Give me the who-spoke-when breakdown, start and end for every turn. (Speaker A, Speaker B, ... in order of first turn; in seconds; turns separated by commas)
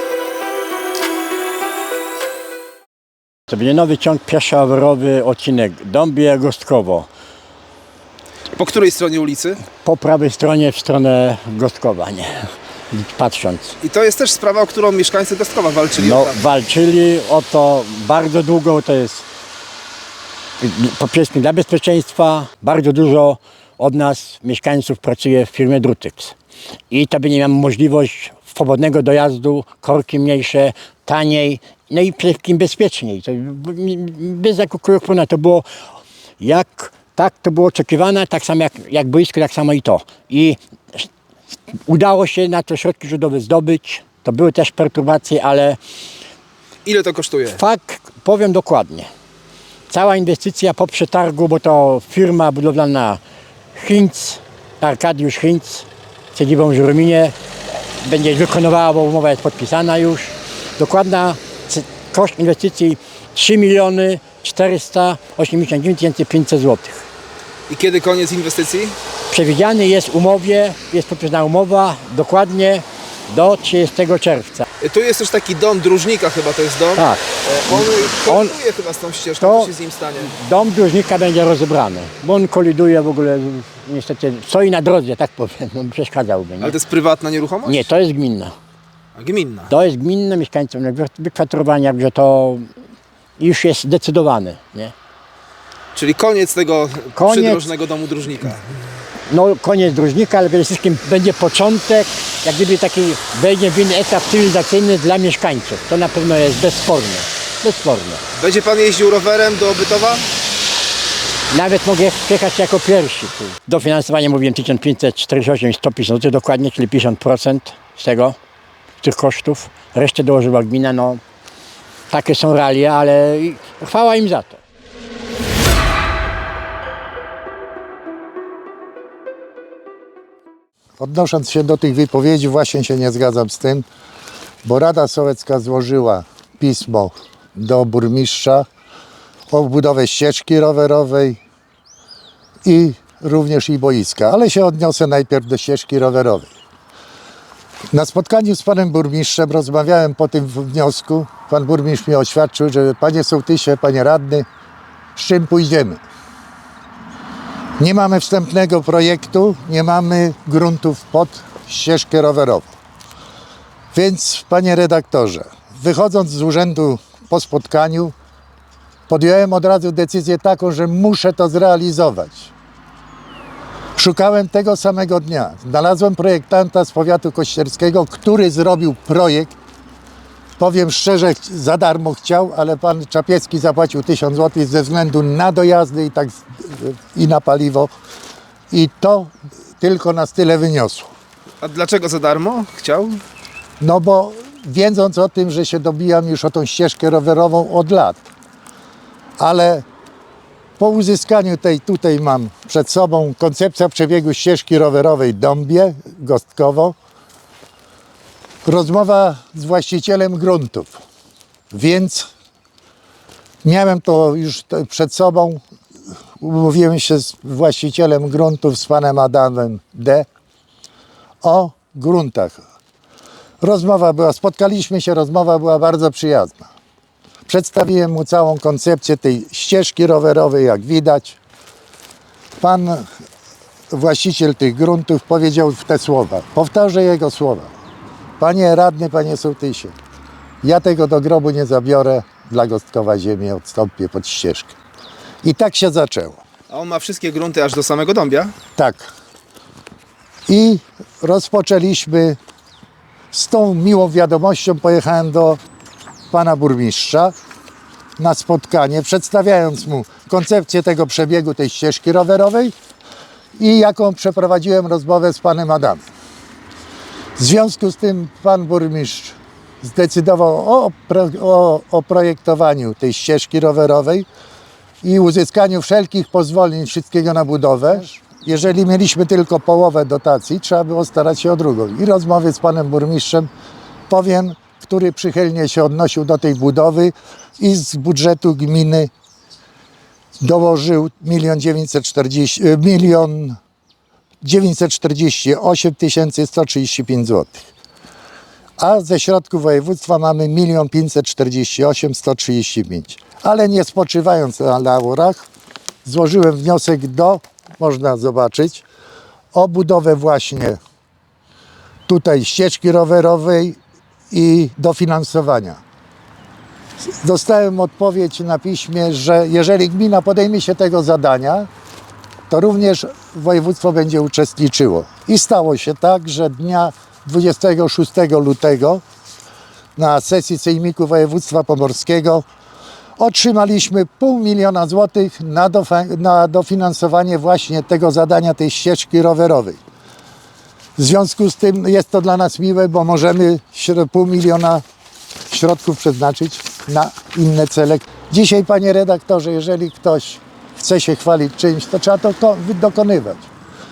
Speaker A: 3.5-7.1, Speaker B: 8.5-9.6, Speaker A: 9.8-13.8, Speaker B: 13.8-16.4, Speaker A: 16.0-19.2, Speaker A: 20.6-26.3, Speaker A: 26.9-35.6, Speaker A: 36.4-41.1, Speaker A: 41.9-45.8, Speaker B: 46.8-47.6, Speaker A: 47.6-49.1, Speaker A: 49.9-53.2, Speaker A: 53.7-57.3, Speaker A: 58.0-67.1, Speaker B: 67.7-69.0, Speaker A: 69.3-74.7, Speaker B: 74.8-80.3, Speaker A: 77.0-78.5, Speaker A: 79.4-86.8, Speaker B: 86.6-87.9, Speaker A: 87.6-88.5, Speaker B: 89.2-89.7, Speaker A: 89.7-92.7, Speaker A: 93.4-94.9, Speaker B: 95.9-98.6, Speaker A: 97.2-97.7, Speaker A: 99.3-108.2, Speaker B: 108.3-110.3, Speaker A: 111.5-118.4, Speaker A: 119.0-121.2, Speaker A: 122.1-124.6, Speaker C: 131.0-133.8, Speaker C: 134.6-138.7, Speaker C: 139.5-141.4, Speaker C: 142.6-146.5, Speaker C: 147.9-154.5, Speaker C: 155.1-156.0, Speaker C: 157.8-162.7, Speaker C: 163.9-168.1, Speaker C: 169.1-172.5, Speaker C: 173.9-179.6, Speaker C: 180.6-187.9, Speaker C: 188.7-191.1, Speaker B: 191.6-193.2, Speaker C: 193.8-198.2, Speaker C: 199.4-199.8, Speaker C: 200.8-206.9, Speaker C: 208.6-211.0, Speaker C: 211.7-212.3, Speaker C: 213.6-215.6, Speaker C: 216.4-220.3, Speaker C: 221.4-222.6, Speaker C: 223.6-226.7, Speaker C: 227.4-231.4, Speaker C: 232.6-233.1, Speaker C: 233.9-237.7, Speaker C: 238.4-239.9, Speaker C: 240.6-244.8, Speaker C: 245.4-246.4, Speaker B: 246.7-248.5, Speaker C: 248.8-249.1, Speaker C: 250.5-252.4, Speaker C: 253.3-255.6, Speaker C: 256.3-257.3, Speaker C: 258.2-262.7, Speaker C: 263.6-266.0, Speaker C: 267.4-274.2, Speaker C: 275.0-283.5, Speaker C: 284.1-289.1, Speaker C: 290.4-293.6, Speaker C: 294.4-297.7, Speaker C: 298.8-305.4, Speaker C: 306.0-308.9, Speaker C: 309.5-310.8, Speaker C: 312.1-313.8, Speaker C: 314.3-315.8, Speaker C: 317.1-321.7, Speaker C: 322.5-329.0, Speaker C: 329.9-332.4, Speaker C: 333.2-339.8, Speaker C: 341.0-344.8, Speaker C: 345.5-353.5